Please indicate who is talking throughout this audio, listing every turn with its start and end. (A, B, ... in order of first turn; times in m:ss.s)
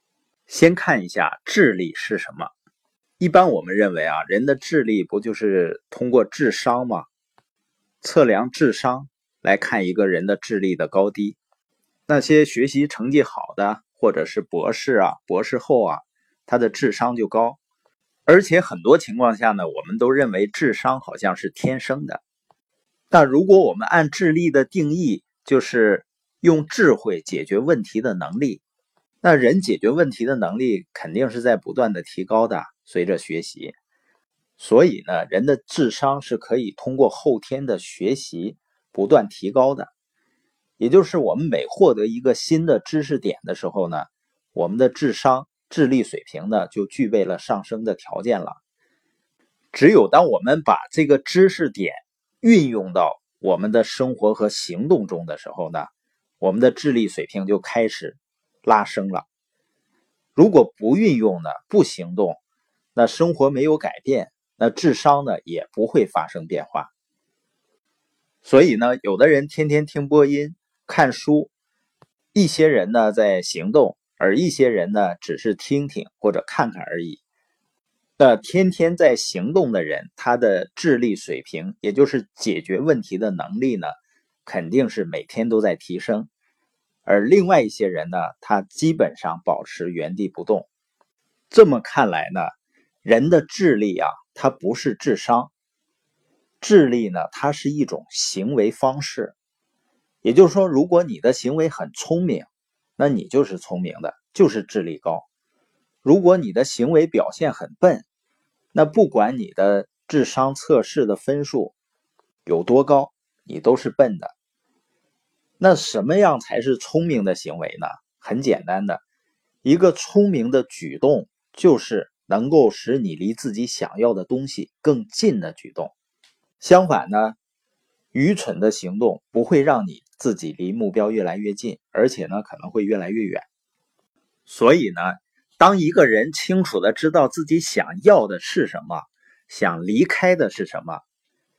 0:00.5-0:02.5 A
0:03.2-0:07.1 A
0:08.0-0:11.4 A
0:12.1-0:17.6 A
0:18.3-0:22.2 A
0:23.1-0:28.6 A
0:29.2-0:33.7 A
0:34.6-0:39.9 A
0:40.8-0:48.6 A
0:49.7-0:55.9 A
0:56.4-0:59.2 A
1:00.3-1:02.4 A
1:02.9-1:06.9 A
1:08.4-1:11.5 A
1:12.3-1:17.2 A
1:18.2-1:26.3 A
1:27.0-1:30.7 A
1:31.5-1:35.5 A
1:36.6-1:39.3 A
1:40.2-1:45.2 A
1:46.0-1:48.0 A
1:48.7-1:51.7 A
1:52.4-1:54.3 A
1:55.6-1:59.0 A
1:59.6-2:05.9 A
2:06.6-2:07.4 A
2:08.1-2:13.4 A
2:14.5-2:21.0 A